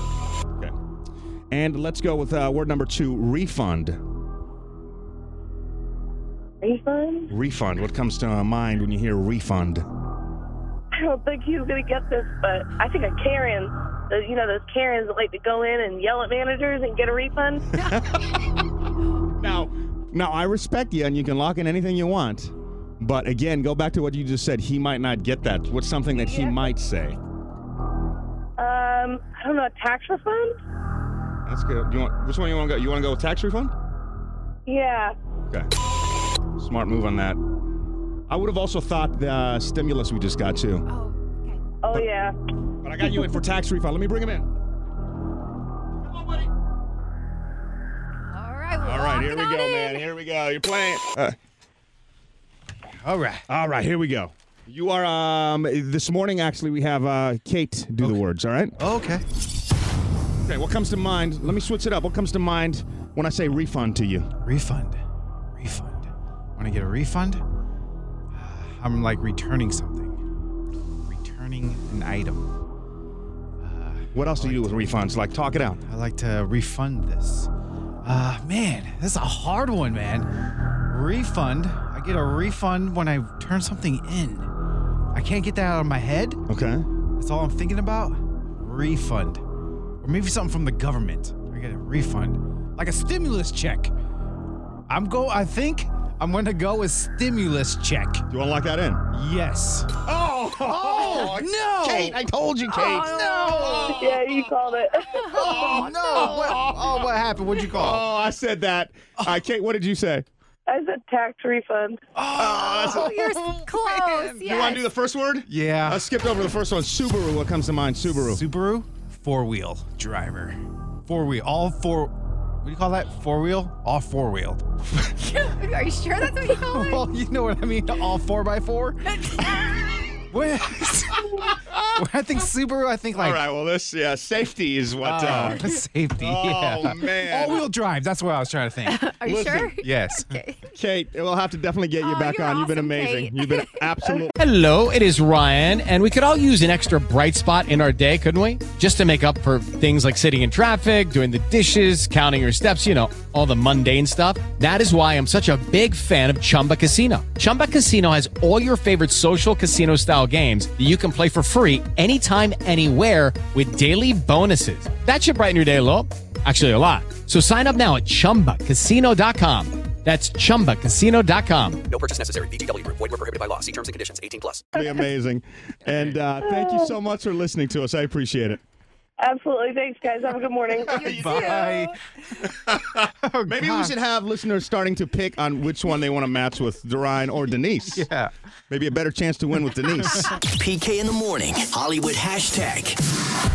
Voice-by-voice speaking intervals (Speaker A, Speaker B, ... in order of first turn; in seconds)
Speaker A: 1.5-4.0, 7.3-9.9, 18.0-18.4, 19.4-27.2, 31.4-33.7, 36.6-37.4, 38.3-40.8, 42.8-44.5, 46.0-46.5, 48.8-51.3, 53.5-58.8, 60.4-64.3, 74.1-75.8, 86.5-86.8, 98.3-99.0, 100.0-104.4, 105.3-106.9, 107.7-110.2, 112.3-113.3, 114.3-118.4, 131.7-131.9, 133.2-135.6, 136.2-137.6, 139.2-139.7, 140.7-144.4, 174.7-178.6, 181.1-181.6, 182.7-188.1, 188.7-190.3
Speaker B: 6.6-7.3, 10.9-17.7, 26.1-26.6, 28.6-30.6, 34.6-35.1, 41.8-42.4, 103.9-105.5, 110.7-112.0, 176.4-176.9, 179.2-181.3
Speaker C: 40.9-41.6, 48.3-50.0, 102.7-103.8, 105.1-106.6, 112.8-114.8, 125.2-127.0, 129.1-129.7, 138.8-140.6, 142.0-143.8, 180.9-181.9
Speaker D: 53.0-53.5, 58.8-59.2, 64.4-65.0, 65.5-67.4, 68.3-70.2, 71.0-72.5, 73.6-75.0, 75.8-77.5, 78.0-80.3, 80.9-84.5, 85.1-86.4, 87.2-89.4, 90.0-93.9, 94.9-98.2, 99.1-99.9, 100.6-102.2, 103.1-103.8, 105.7-108.0, 112.2-114.3, 115.5-116.0, 118.1-124.6, 126.6-129.0, 130.3-131.3, 131.9-133.4, 135.0-139.0, 139.8-140.3, 181.0-181.9, 183.2-183.9, 187.9-188.3
Speaker E: 144.4-171.8
Speaker F: 171.8-174.7
Speaker G: 190.4-193.0